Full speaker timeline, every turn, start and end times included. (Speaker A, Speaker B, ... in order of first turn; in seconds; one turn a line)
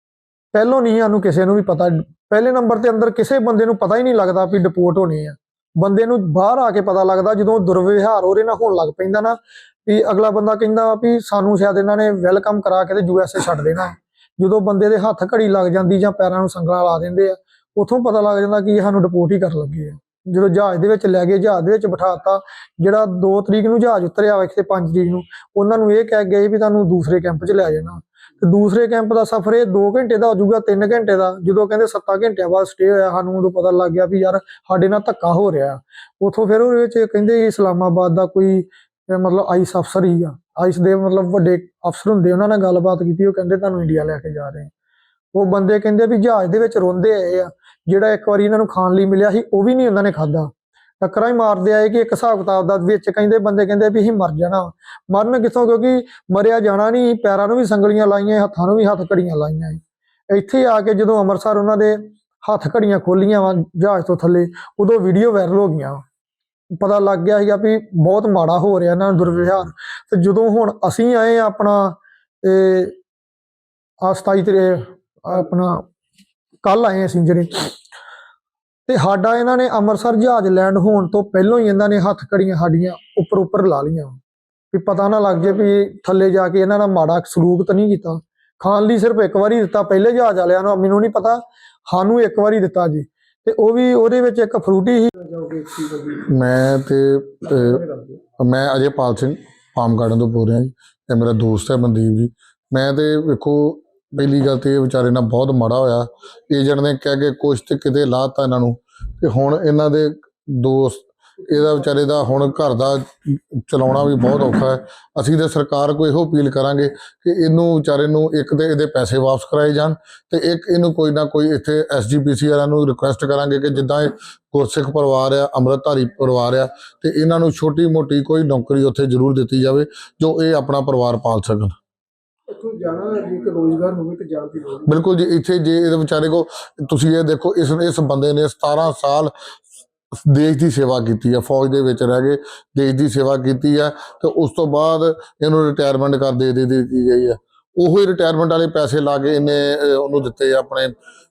Speaker A: 0.5-44.7
Speaker A: 45.3-66.0
Speaker A: 66.8-73.0
Speaker A: 74.0-75.8
Speaker A: 76.6-77.7
Speaker A: 78.9-84.2
Speaker A: 84.7-95.1
Speaker B: 95.2-96.3
Speaker C: 96.3-97.8
Speaker B: 97.5-98.2
Speaker C: 98.4-131.7
Speaker B: 132.5-135.0
Speaker C: 134.9-139.3
Speaker C: 140.2-150.9